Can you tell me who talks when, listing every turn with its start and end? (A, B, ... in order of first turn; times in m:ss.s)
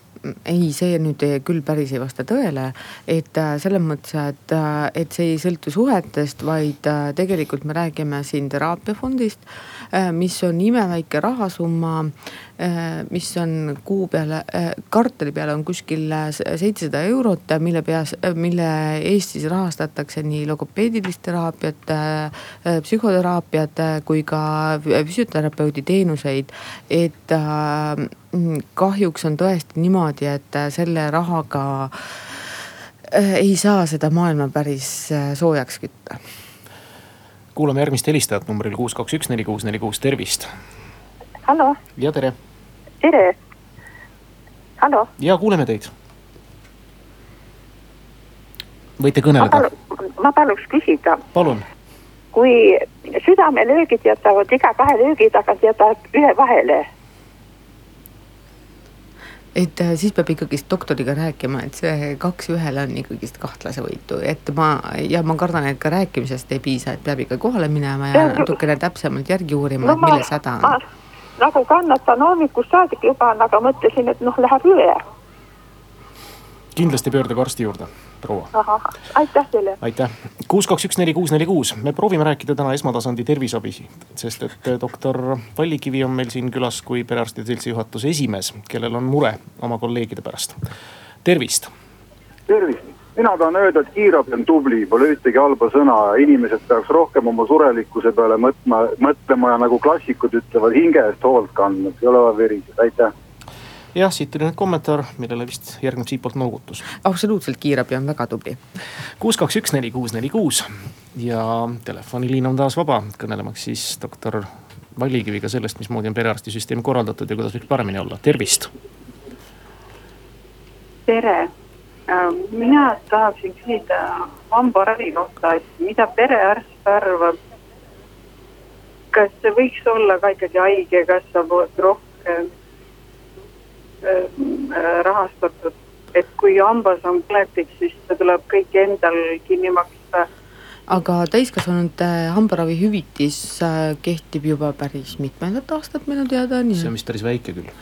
0:00.2-0:32.4 A
0:33.1-0:36.2 A
0:37.6-0:40.5 B
0:41.4-0:41.8 C
0:42.0-0:42.4 B
0:43.0-0:43.4 C
0:44.8-0:45.1 C
0:45.2-0:45.9 B
0:49.0-0:49.7 B
0:49.4-0:51.2 C
0:51.3-0:51.6 B
0:52.3-0:56.9 C
0:59.6-1:10.8 A
1:08.2-1:08.5 C
1:09.8-1:10.8 C
1:11.4-1:15.0 C
1:16.8-1:18.5 B
1:18.5-1:19.8 C
1:19.8-1:30.6 B
1:31.2-1:31.7 B
1:32.5-1:43.1 D
1:43.9-1:46.9 B
1:47.0-1:48.6 A
1:49.2-1:58.7 B
2:01.1-2:01.5 E
2:02.1-2:07.4 E
2:09.1-2:12.5 E
2:14.0-2:20.3 E
2:20.9-2:26.9 A
2:26.8-2:27.7 B